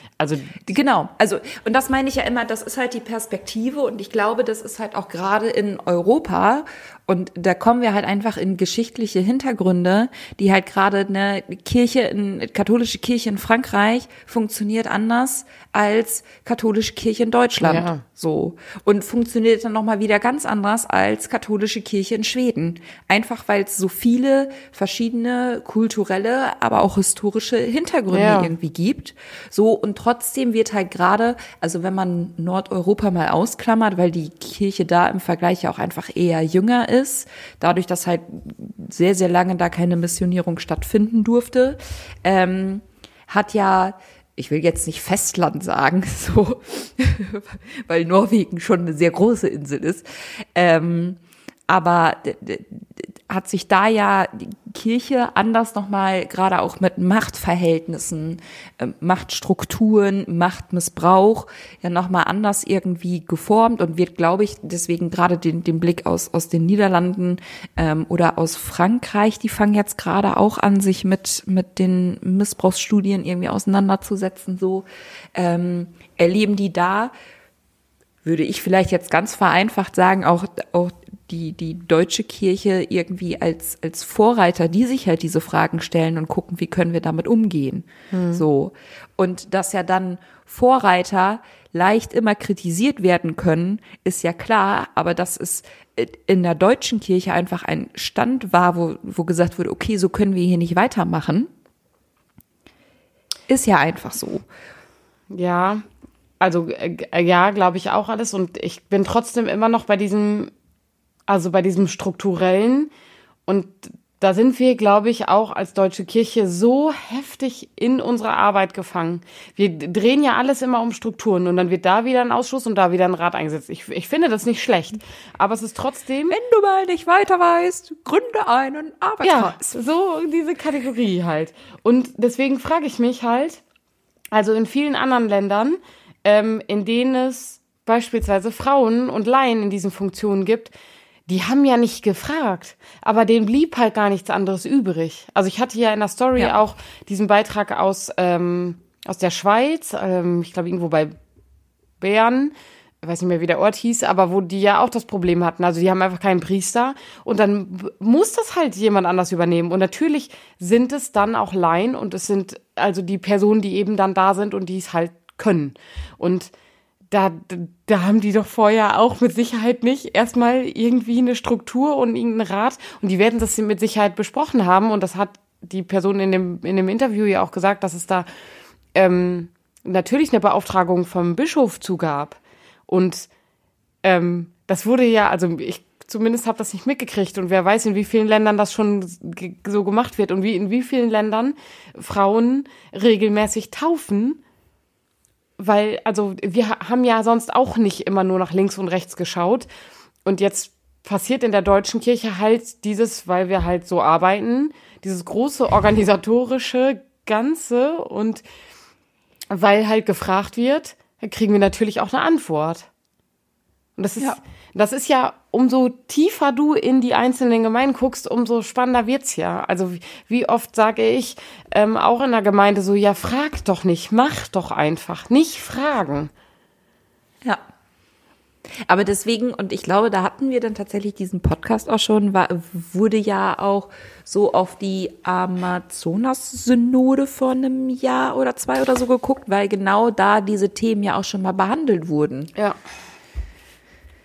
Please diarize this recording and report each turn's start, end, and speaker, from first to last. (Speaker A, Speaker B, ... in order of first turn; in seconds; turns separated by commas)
Speaker A: 0.2-0.6, Speaker B: 0.6-77.1, Speaker A: 17.6-18.0, Speaker A: 28.1-28.6, Speaker B: 78.2-101.5, Speaker A: 88.1-88.5, Speaker B: 103.5-104.5, Speaker A: 105.3-105.8, Speaker A: 106.4-110.5, Speaker A: 111.3-112.9, Speaker A: 113.5-126.4, Speaker B: 126.3-129.8, Speaker A: 129.2-133.6, Speaker A: 134.3-140.7, Speaker A: 141.3-151.2, Speaker A: 152.0-166.5, Speaker A: 167.1-178.3, Speaker A: 178.9-183.3, Speaker A: 184.0-194.4, Speaker A: 195.6-199.7, Speaker A: 200.2-208.4, Speaker A: 209.5-212.9, Speaker A: 214.0-226.3, Speaker B: 228.8-242.5